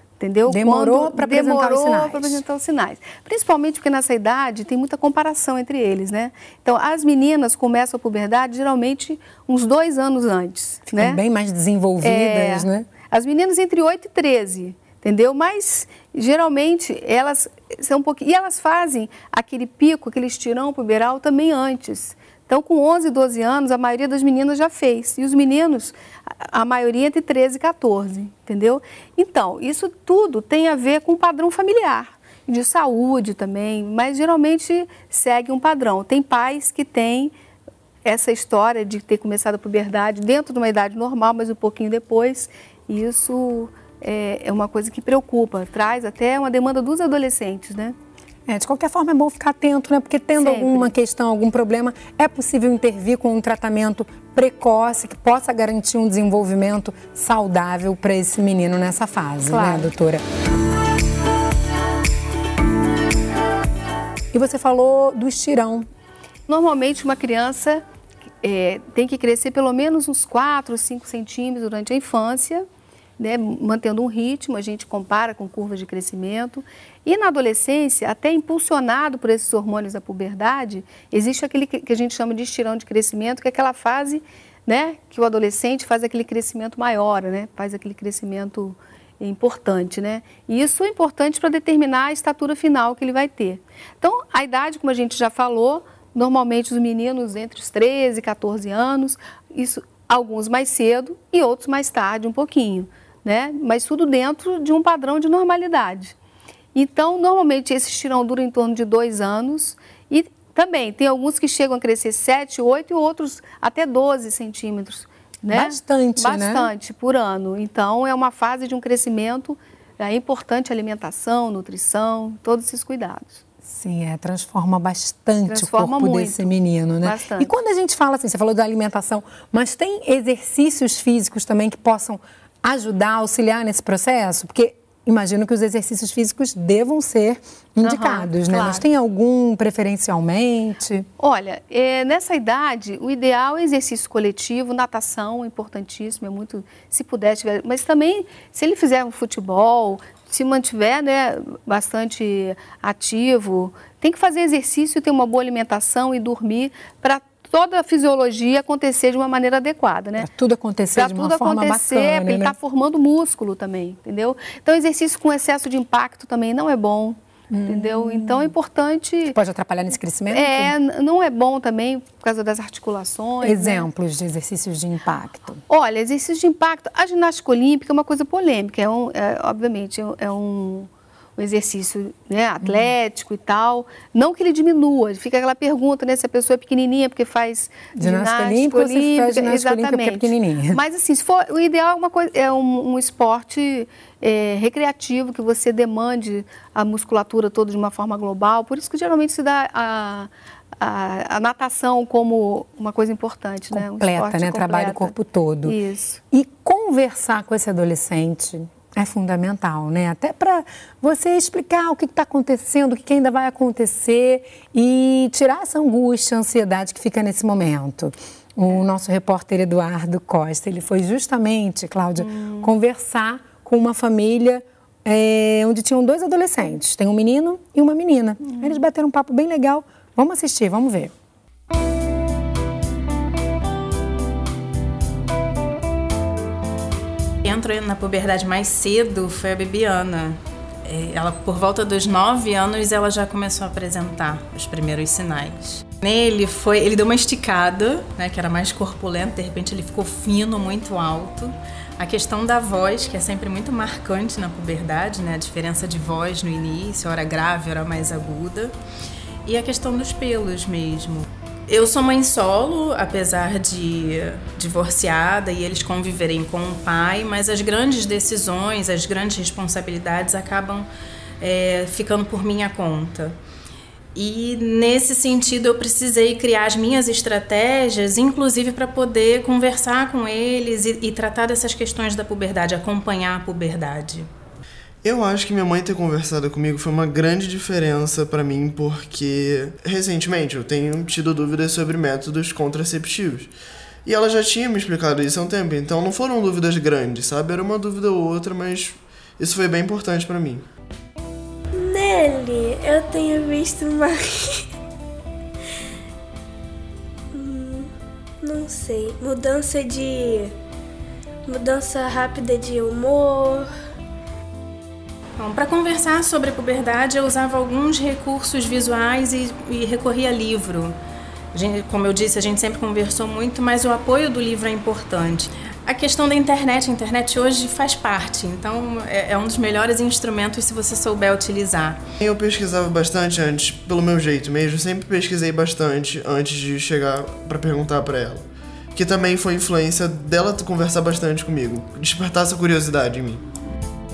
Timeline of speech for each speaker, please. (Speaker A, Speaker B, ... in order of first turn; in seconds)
Speaker A: 0.2-11.2, 12.0-37.3, 38.0-47.9, 50.4-50.9, 59.5-59.9, 66.5-67.8, 68.4-72.6, 73.2-106.2, 106.7-123.4, 125.5-127.5, 137.8-138.8, 141.2-160.3, 160.9-169.4, 170.3-173.9, 175.7-206.2, 222.2-222.7, 228.5-228.7
Speaker B: 0.5-2.4, 10.9-12.9, 48.5-60.2, 64.3-65.9, 115.5-116.7, 123.6-141.1, 160.2-162.6, 167.5-168.5, 169.3-170.7, 173.4-175.6, 182.6-182.9, 187.9-190.8, 203.7-205.8, 206.3-231.1
Speaker C: 237.4-258.7, 259.4-270.9, 271.4-273.4, 274.1-284.3, 315.4-320.9, 321.5-332.0
Speaker D: 285.0-293.5, 294.0-300.6, 332.2-343.4
Speaker E: 301.7-304.6, 307.3-307.9, 308.4-310.5, 311.4-313.7